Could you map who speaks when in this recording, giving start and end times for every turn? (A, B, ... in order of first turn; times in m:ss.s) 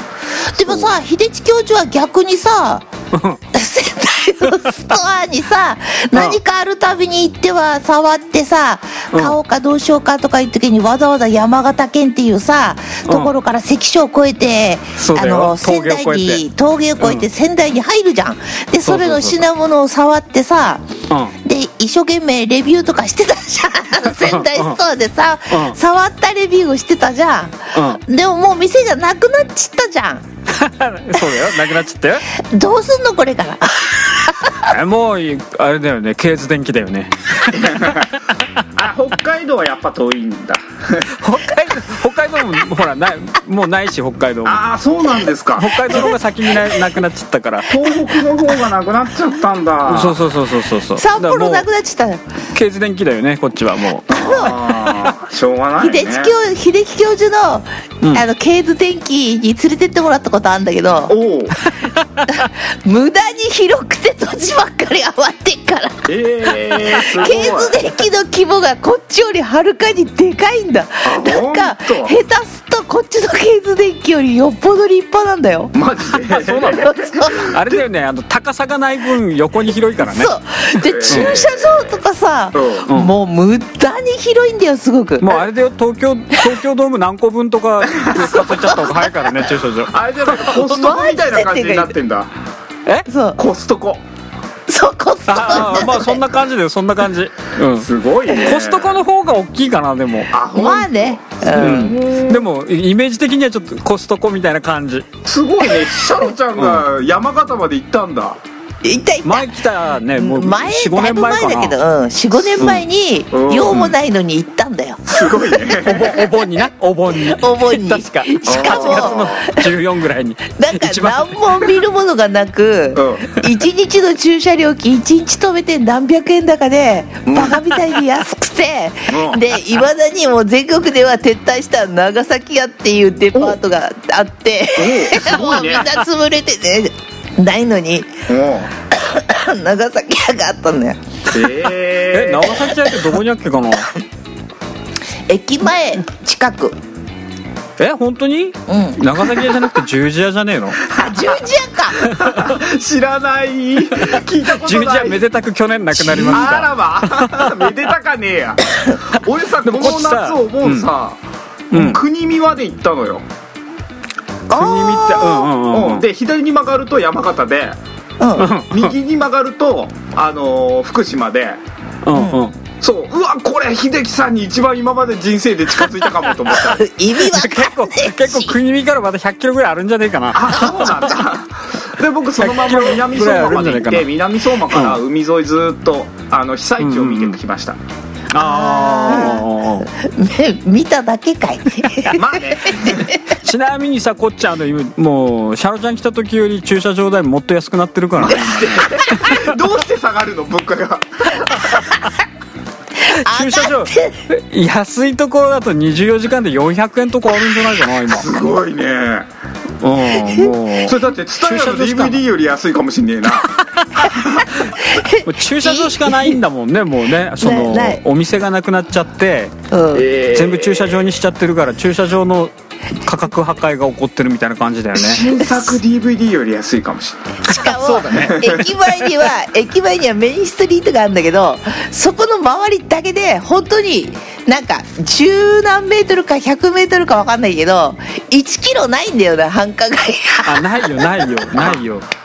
0:00.4-0:02.8 A
0:03.1-0:03.4 B
0:03.5-0:20.8 A
0:09.1-0:09.4 B
0:15.0-0:16.4 B
0:17.0-0:17.2 B
0:18.9-0:19.4 B
0:21.1-0:21.3 B
0:21.4-0:30.2 A
0:24.1-0:24.8 B
0:25.5-0:25.8 B
0:27.7-0:28.0 B
0:30.5-0:32.2 B
0:31.2-0:31.5 A
0:32.3-0:34.7 A
0:34.6-0:38.4 B
0:37.5-0:38.1 C
0:38.7-0:41.2 C
0:41.2-0:44.6 B
0:44.4-0:46.1 C
0:45.6-0:47.7 B
0:47.7-0:50.2 C
0:49.9-0:51.6 B
0:51.0-0:52.2 A
0:52.5-0:55.1 B
0:54.1-0:54.6 A
0:54.1-0:56.3 C
0:55.8-1:01.1 A
1:01.1-1:01.6 C
1:02.3-1:15.7 A
1:06.0-1:07.8 C
1:11.0-1:12.2 C
1:15.7-1:17.8 C
1:16.1-1:20.3 B
1:16.8-1:17.4 A
1:20.0-1:25.4 A
1:20.8-1:21.9 C
1:21.1-1:21.4 B
1:22.5-1:22.9 C
1:25.2-1:30.7 B
1:28.4-1:29.1 A
1:29.9-1:32.3 C
1:30.5-1:31.9 A
1:33.1-1:33.4 A
1:33.4-1:34.0 C
1:34.7-1:36.2 A
1:35.3-1:40.3 B
1:37.7-1:39.0 C
1:40.3-1:42.4 C
1:40.5-1:41.9 A
1:41.6-1:45.1 B
1:45.2-1:48.4 C
1:46.6-1:46.8 B
1:48.8-1:49.6 A
1:49.2-1:51.8 B
1:50.2-1:55.9 A
1:52.6-1:52.8 B
1:53.3-1:53.9 C
1:55.1-1:56.2 C
1:55.7-2:01.7 B
1:57.2-1:59.7 A
1:58.5-1:59.4 C
2:00.6-2:18.2 A
2:02.9-2:03.3 C
2:09.1-2:09.4 C
2:14.8-2:15.9 C
2:18.3-2:18.7 C
2:18.9-2:21.0 A
2:21.3-2:22.6 C
2:22.1-2:23.9 B
2:22.7-2:23.0 A
2:25.3-2:26.8 A
2:27.8-2:30.8 B
2:28.7-2:29.5 A
2:30.9-2:32.0 A
2:32.0-2:35.2 C
2:34.6-2:37.6 B
2:36.0-2:41.2 C
2:39.6-2:40.9 B
2:41.7-2:42.0 B
2:41.7-2:43.2 C
2:44.5-2:45.5 A
2:44.5-2:46.0 B
2:45.6-2:47.8 C
2:48.2-2:48.5 A
2:48.4-2:48.9 B
2:48.7-2:51.6 C
2:52.0-2:52.5 B
2:52.1-2:52.4 A
2:52.8-2:56.8 C
2:56.5-2:58.5 A
2:57.2-3:01.1 B
3:00.3-3:07.8 C
3:02.4-3:04.1 B
3:04.7-3:05.0 B
3:06.8-3:07.3 B
3:08.3-3:09.9 B
3:08.4-3:13.3 A
3:12.1-3:13.0 C
3:12.9-3:19.4 B
3:18.2-3:22.0 C
3:18.9-3:19.2 A
3:23.0-3:24.2 A
3:23.1-3:28.3 B
3:28.1-3:29.3 C
3:29.8-3:32.2 B
3:30.2-3:30.5 A
3:30.8-3:33.5 C
3:33.4-3:39.5 B
3:34.0-3:34.5 C
3:34.4-3:36.4 A
3:37.4-3:38.0 A
3:39.7-3:40.0 A
3:39.9-3:41.0 C
3:40.3-3:45.3 B
3:44.9-3:47.3 C
3:47.4-4:01.3 A
3:47.5-3:48.7 B
4:00.4-4:02.0 B